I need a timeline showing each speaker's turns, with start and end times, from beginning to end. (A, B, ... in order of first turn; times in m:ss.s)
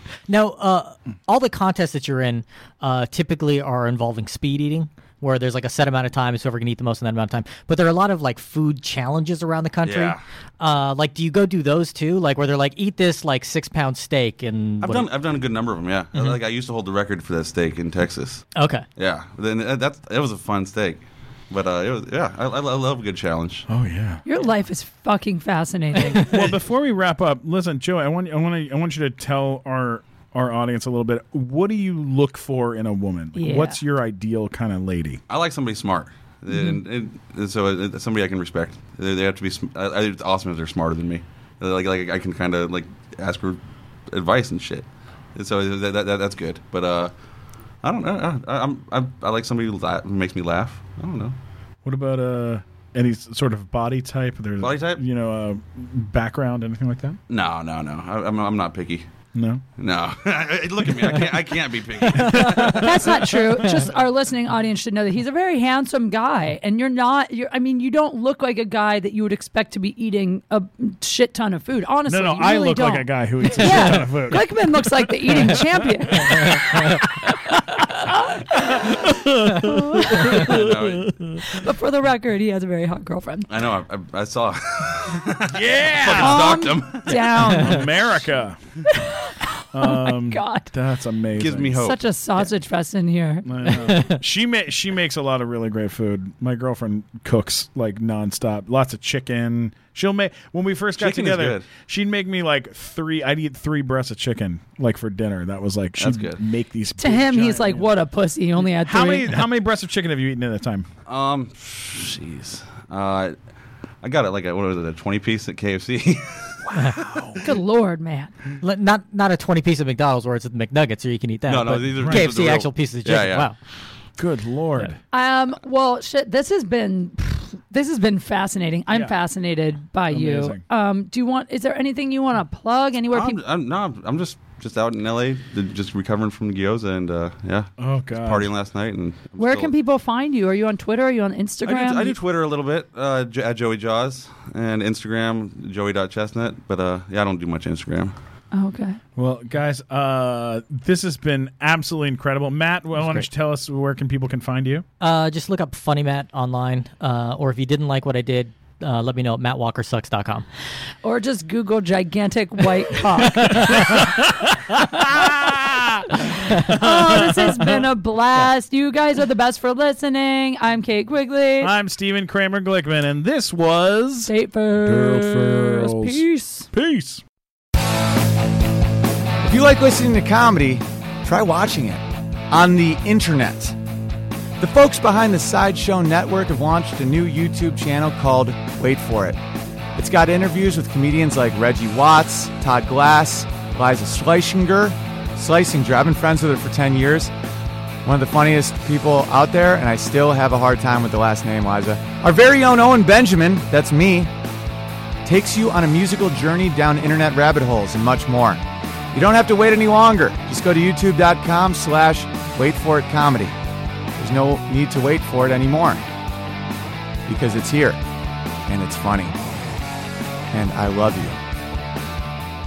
0:00.3-0:15.1 A
0:09.8-0:10.2 B
0:14.8-0:18.4 B
0:18.6-0:18.8 A
0:19.0-0:23.7 B
0:23.7-0:24.2 C
0:24.2-0:26.3 D
0:26.2-0:35.2 C
0:33.3-0:33.8 D
0:35.3-0:47.1 B
0:47.8-0:51.3 B
0:51.8-0:57.2 C
0:54.6-0:55.0 B
0:57.3-0:59.1 B
0:59.3-0:59.6 C
0:59.8-1:03.2 B
1:02.1-1:03.7 C
1:02.1-1:02.8 A
1:02.8-1:16.8 D
1:03.4-1:03.8 A
1:12.1-1:16.9 C
1:13.7-1:14.0 A
1:17.5-1:18.8 D
1:18.7-1:21.4 C
1:19.6-1:20.4 D
1:20.2-1:21.1 B
1:21.5-1:23.5 D
1:23.5-1:27.2 B
1:25.5-1:26.6 C
1:26.2-1:28.2 D
1:27.4-1:28.6 C
1:28.8-1:30.7 D
1:29.7-1:31.8 C
1:31.4-1:32.0 B
1:31.7-1:33.7 D
1:33.4-1:47.9 C
1:33.9-1:34.1 A
1:41.0-1:41.7 B
1:46.0-1:46.4 B
1:47.0-1:49.4 D
1:48.6-1:50.9 C
1:51.1-1:53.4 B
1:54.0-1:56.5 B
1:56.7-1:57.4 C
1:57.4-1:58.3 D
1:58.6-2:03.5 A
2:01.5-2:03.5 B
2:02.0-2:02.3 C
2:04.2-2:05.0 C
2:05.1-2:13.4 D
2:08.9-2:09.2 C
2:10.1-2:10.6 C
2:13.1-2:19.7 B
2:17.8-2:18.5 C
2:19.4-2:22.2 D
2:21.6-2:28.1 B
2:28.5-2:29.0 D
2:29.2-2:34.8 C
2:33.0-2:33.3 A
2:35.0-2:40.4 A
2:41.0-2:44.1 D
2:43.7-2:47.8 C
2:46.2-2:51.7 D
2:51.6-2:57.2 C
2:54.3-2:56.7 D
2:59.4-3:03.8 E
3:04.6-3:09.4 E
3:10.0-3:17.3 E
3:18.0-3:24.3 E
3:25.2-3:33.6 E
3:34.2-3:36.1 E
3:37.3-3:38.0 E
3:38.7-3:39.3 E
3:40.5-3:41.4 E